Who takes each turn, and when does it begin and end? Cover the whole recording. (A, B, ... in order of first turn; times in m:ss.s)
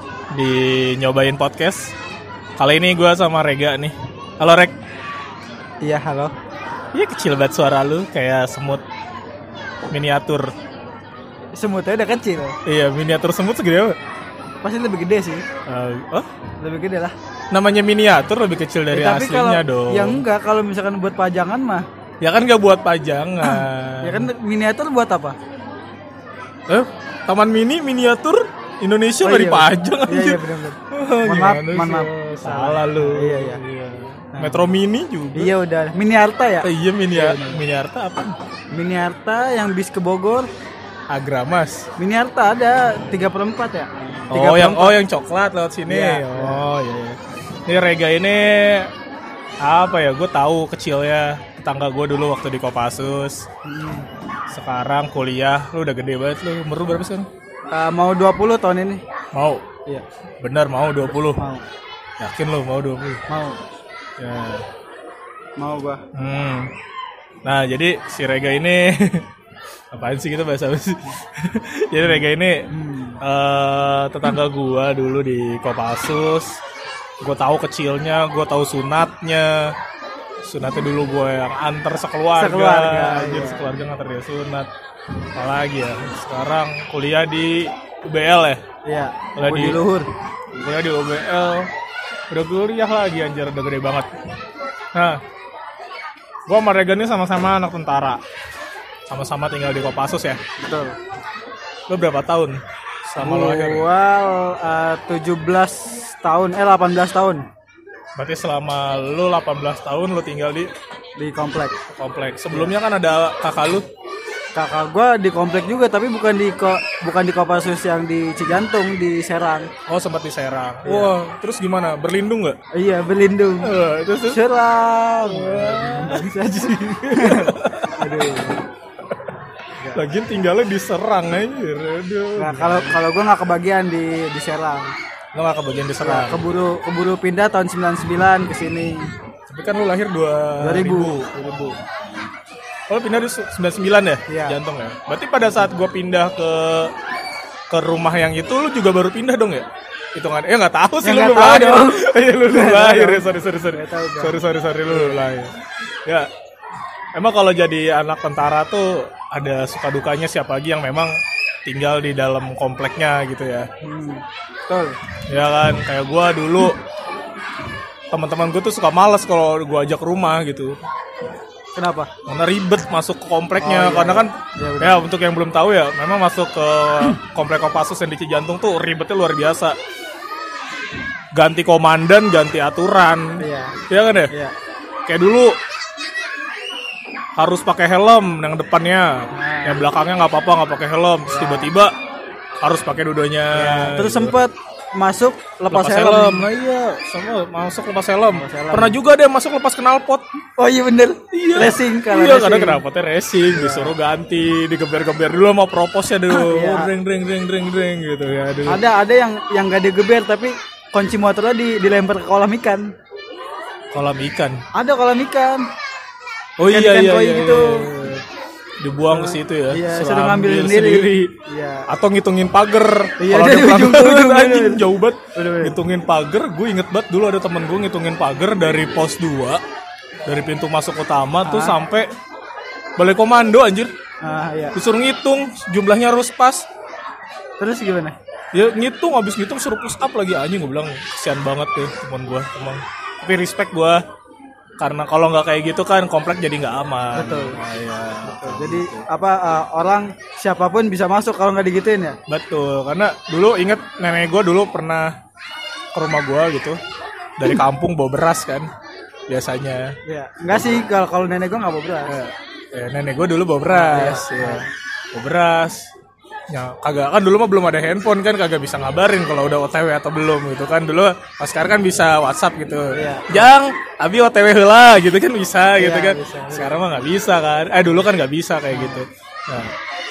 0:00.3-0:01.9 A
0:02.6-0:04.8 A
0:05.8-0:06.3 B
0:06.9-0:08.8 A
0:09.9-0:10.5 A
0:11.6-0:12.6 B
0:12.6-0:14.0 A
0:14.6-0:15.4 B
0:15.7-0:16.3 A
0:16.6-0:17.1 B
0:17.5-0:20.2 A
0:18.9-0:21.9 B
0:22.2-0:24.3 A
0:23.4-0:25.4 B
0:26.7-0:35.5 A
0:29.2-0:33.6 B
0:34.3-0:34.6 B
0:35.3-0:37.6 B
0:36.6-0:38.4 A
0:38.7-0:40.5 B
0:41.1-0:41.9 A
0:42.0-0:45.0 B
0:44.3-0:48.9 A
0:45.9-0:46.6 B
0:49.6-0:53.5 A
0:53.6-0:54.1 B
0:54.5-0:57.3 A
0:57.7-0:59.0 B
0:59.3-0:59.6 A
1:00.4-1:01.4 A
1:01.2-1:01.6 B
1:02.2-1:03.2 A
1:03.3-1:03.6 B
1:04.2-1:04.7 A
1:05.6-1:06.0 B
1:06.1-1:06.7 A
1:07.4-1:09.3 A
1:09.9-1:12.7 A
1:12.7-1:13.2 B
1:13.2-1:16.6 A
1:17.2-1:19.8 A
1:20.4-1:24.7 A
1:22.4-1:23.7 B
1:25.4-1:28.6 A
1:28.9-1:30.1 B
1:29.4-1:29.8 A
1:30.5-1:31.7 A
1:32.3-1:34.1 A
1:35.0-1:35.2 A
1:36.5-1:38.2 A
1:39.1-1:40.4 A
1:40.6-1:41.0 B
1:41.9-1:43.9 A
1:43.2-1:47.5 B
1:48.2-1:50.7 A
1:51.2-1:51.8 B
1:51.9-1:53.9 A
1:54.6-1:59.7 B
1:59.9-2:02.6 A
2:00.8-2:01.1 B
2:02.7-2:03.7 B
2:03.6-2:04.4 A
2:04.3-2:08.6 B
2:05.3-2:08.2 A
2:09.9-2:13.0 A
2:12.4-2:14.9 B
2:15.4-2:16.4 A
2:16.0-2:19.1 B
2:19.5-2:21.8 A
2:20.6-2:21.3 B
2:22.9-2:26.9 A
2:24.3-2:24.6 B
2:27.7-2:35.5 A
2:31.0-2:35.2 B
2:37.2-2:41.1 A
2:41.6-2:43.7 A
2:43.8-2:45.0 B
2:45.3-2:46.8 A
2:48.1-2:50.8 A
2:51.8-2:52.1 B
2:52.3-2:59.8 A
2:53.6-2:55.1 B
3:01.3-3:04.3 A
3:03.4-3:04.5 B
3:05.1-3:05.6 A
3:07.4-3:11.9 A
3:09.3-3:09.8 B
3:11.3-3:11.7 B
3:12.6-3:14.4 A
3:13.5-3:16.5 B
3:15.7-3:20.3 A
3:18.3-3:19.0 B
3:20.6-3:22.8 B
3:21.3-3:28.8 A
3:23.5-3:23.9 B
3:26.3-3:26.9 B
3:28.7-3:32.9 B
3:33.9-3:34.6 A
3:34.8-3:35.7 B
3:36.6-3:38.2 A
3:36.6-3:37.9 B
3:38.8-3:41.3 A
3:39.1-3:41.9 B
3:41.9-3:49.6 A
3:43.2-3:45.8 B
3:50.2-3:52.1 A
3:51.4-3:51.8 B
3:53.0-3:53.9 A
3:54.2-3:54.8 B
3:54.7-3:56.7 A
3:57.6-3:58.2 B
3:58.5-4:04.0 A
4:04.8-4:09.1 A
4:07.2-4:07.6 B
4:08.3-4:12.2 B
4:12.3-4:15.1 A
4:15.9-4:16.8 A
4:17.4-4:18.7 A
4:19.3-4:20.0 A
4:20.1-4:22.1 B
4:20.5-4:20.8 A
4:22.1-4:25.9 A
4:23.7-4:24.7 B
4:26.5-4:39.8 A
4:32.9-4:33.5 B
4:35.8-4:36.8 B
4:38.7-4:39.0 B